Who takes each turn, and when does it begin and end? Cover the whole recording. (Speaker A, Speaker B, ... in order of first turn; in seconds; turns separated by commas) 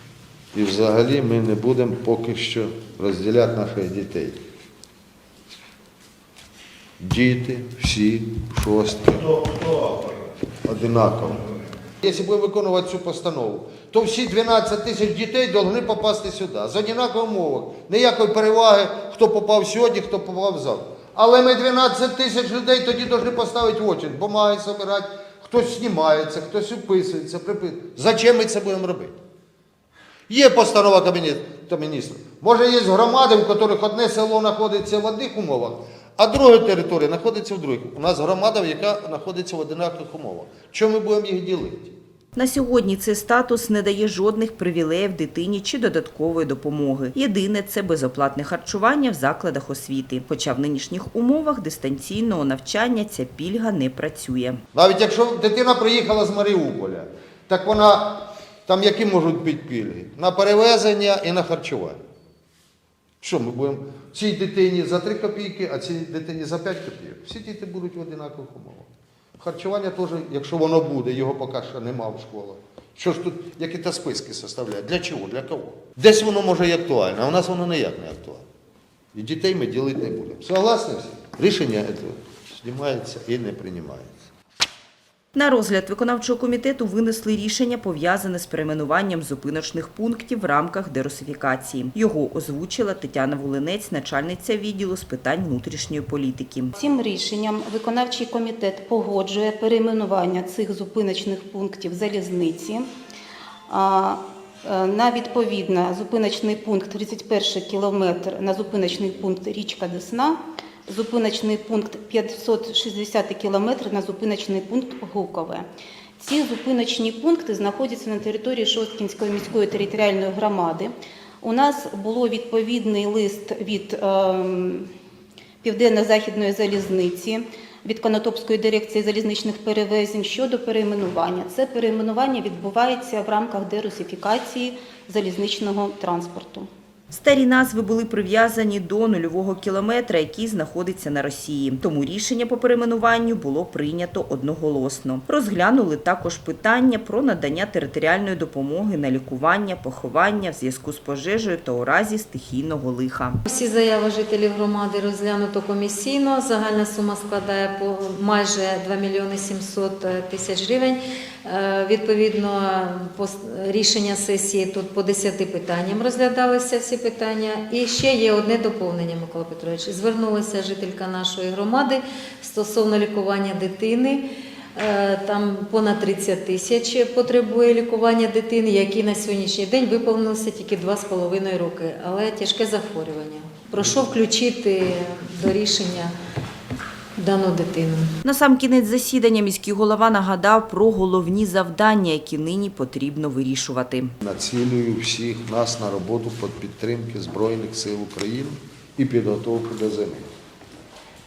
Speaker A: 0.5-4.4, Speaker A: 7.0-10.0, Speaker A: 10.6-11.5, Speaker A: 12.0-29.1, Speaker A: 30.3-41.9, Speaker B: 42.4-54.6, Speaker A: 54.7-62.0, Speaker A: 63.2-78.4, Speaker A: 79.1-84.2, Speaker B: 85.3-96.7, Speaker C: 96.8-102.9, Speaker C: 103.7-115.6, Speaker C: 116.2-120.9, Speaker C: 121.4-124.9, Speaker C: 125.6-136.7, Speaker B: 137.1-153.4, Speaker D: 153.5-174.2, Speaker D: 174.8-186.1, Speaker D: 187.2-188.1, Speaker B: 188.2-194.1, Speaker A: 194.2-200.3